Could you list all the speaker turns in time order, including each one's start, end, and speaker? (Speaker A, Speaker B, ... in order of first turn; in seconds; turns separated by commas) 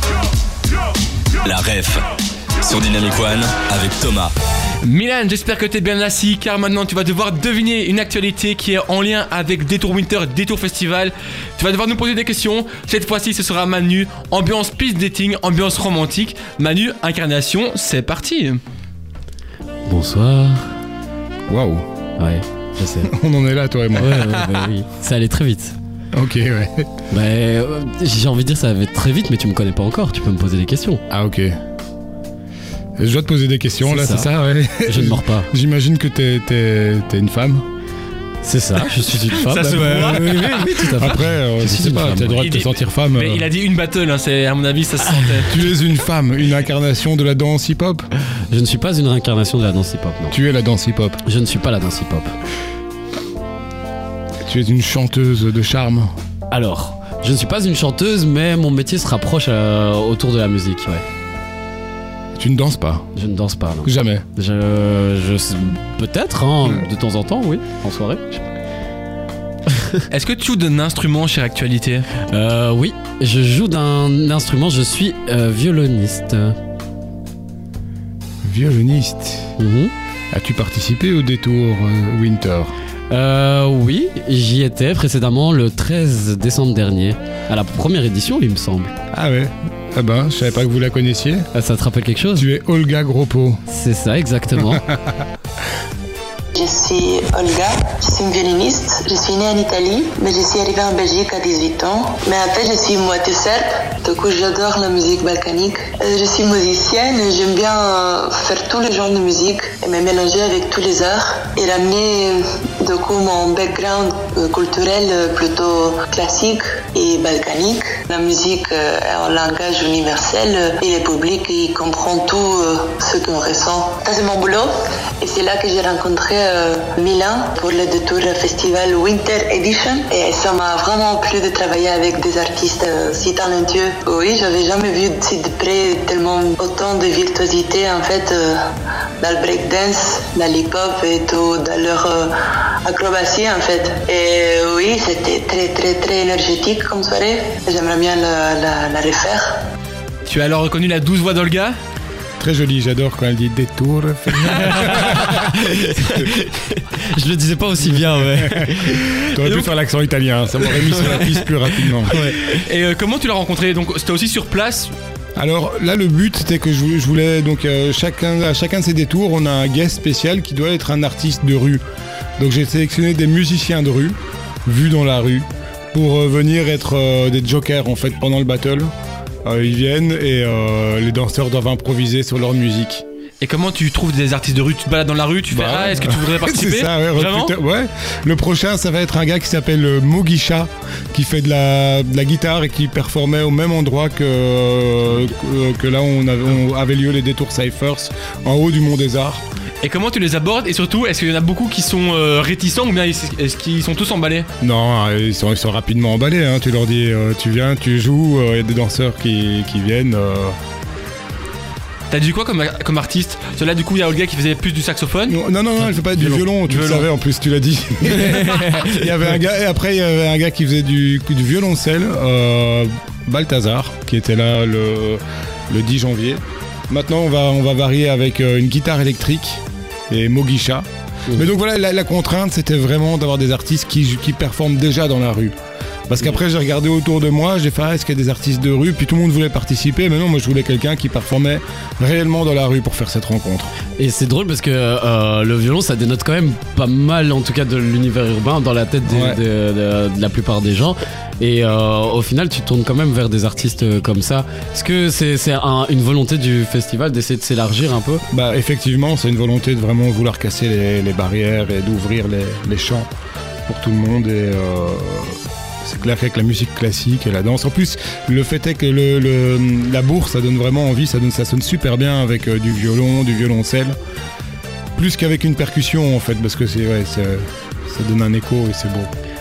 Speaker A: 1.4-4.3, Speaker B: 4.8-18.6, Speaker C: 19.9-20.6, Speaker D: 21.5-21.8, Speaker C: 22.2-23.1, Speaker D: 23.0-24.4, Speaker C: 23.9-25.8, Speaker D: 26.1-26.9, Speaker C: 27.1-31.0, Speaker D: 31.1-31.6, Speaker D: 33.0-37.6, Speaker C: 33.8-34.3, Speaker C: 34.8-35.5, Speaker C: 38.4-42.5, Speaker B: 39.3-41.0, Speaker D: 40.9-43.5, Speaker B: 42.4-45.6, Speaker D: 45.5-48.0, Speaker C: 48.5-50.4, Speaker D: 50.3-51.2, Speaker C: 51.2-52.3, Speaker D: 54.4-56.1, Speaker C: 56.5-61.0, Speaker D: 62.3-63.1, Speaker C: 63.1-68.4, Speaker D: 63.8-64.2, Speaker C: 69.7-70.0, Speaker B: 70.1-72.1, Speaker C: 72.2-76.6, Speaker D: 78.4-79.5, Speaker C: 79.6-79.9, Speaker D: 80.3-82.7, Speaker C: 83.1-88.9, Speaker D: 89.1-91.5, Speaker C: 91.5-92.5, Speaker D: 92.3-93.6, Speaker C: 93.7-94.8, Speaker D: 94.6-95.0, Speaker E: 96.5-138.6, Speaker E: 139.2-142.3, Speaker E: 142.8-149.4, Speaker B: 150.2-151.7, Speaker D: 152.4-155.5, Speaker C: 155.0-159.3, Speaker D: 157.8-162.2, Speaker C: 162.0-162.4, Speaker B: 162.1-164.9, Speaker D: 165.3-171.8, Speaker D: 172.4-178.9, Speaker D: 179.4-183.0, Speaker B: 183.4-187.5, Speaker D: 185.5-199.4, Speaker B: 199.8-204.5, Speaker D: 204.6-210.6, Speaker B: 212.1-217.1, Speaker D: 215.3-235.5, Speaker B: 218.2-219.0, Speaker D: 236.1-243.7, Speaker C: 244.0-258.2, Speaker D: 249.1-249.4, Speaker D: 258.3-263.1, Speaker D: 263.6-273.9, Speaker D: 274.9-279.1